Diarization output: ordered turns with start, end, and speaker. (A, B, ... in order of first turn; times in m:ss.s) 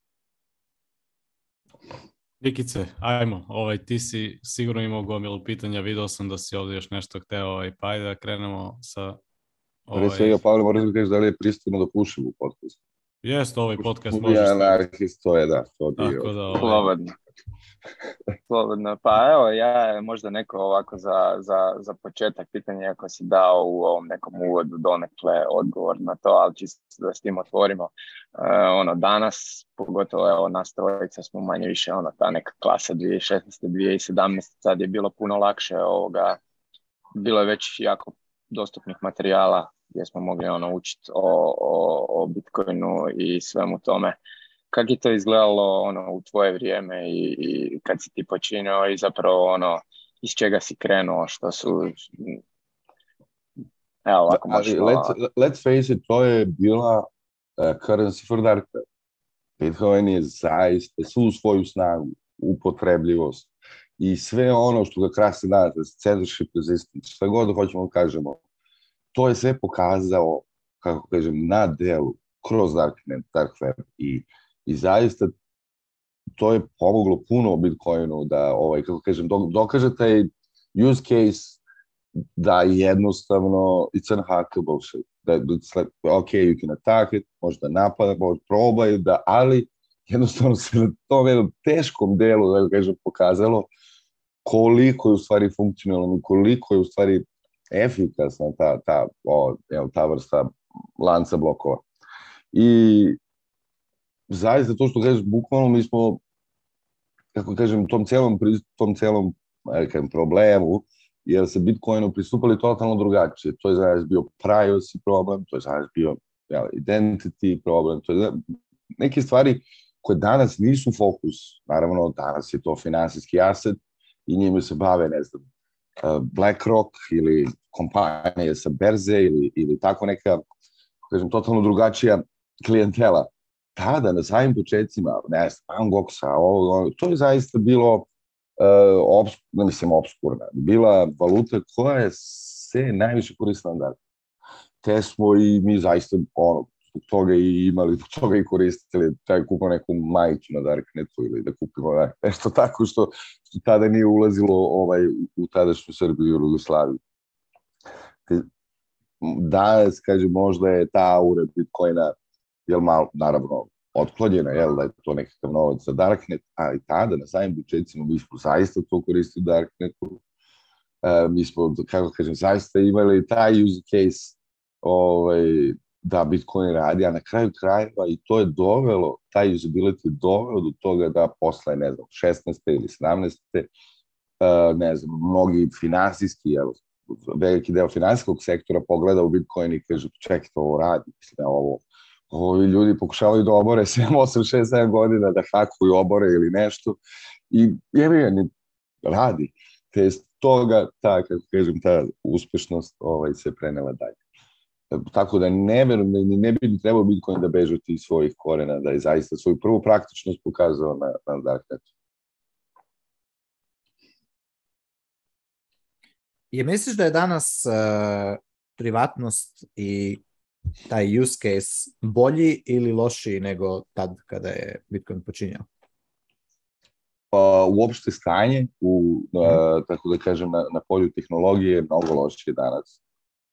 0:02.4-0:09.2 A
0:09.9-0:10.4 A
0:09.9-0:12.8 B
0:13.2-0:14.8 A
0:14.1-0:16.4 B
0:16.0-0:16.9 A
0:16.6-0:17.1 C
0:18.5-0:36.4 C
0:37.2-0:44.2 C
0:44.7-0:52.4 C
0:54.0-0:55.2 C
0:54.3-0:58.8 B
0:59.6-1:03.5 B
1:04.0-1:08.4 B
1:09.1-1:15.3 B
1:16.4-1:21.6 B
1:22.4-1:33.7 B
1:34.4-1:41.8 B
1:42.5-1:43.2 B
1:44.3-1:46.2 B
1:47.3-1:58.4 B
1:59.0-2:05.4 B
2:06.0-2:10.4 B
2:11.1-2:24.0 B
2:24.8-2:37.0 B
2:39.2-2:42.1 B
2:42.7-2:50.2 B
2:51.0-3:03.7 B
3:04.4-3:17.0 B
3:17.5-3:18.5 B
3:19.0-3:24.2 B
3:24.9-3:31.9 B
3:36.5-3:40.2 D
3:40.9-3:45.6 D
3:47.3-3:53.0 B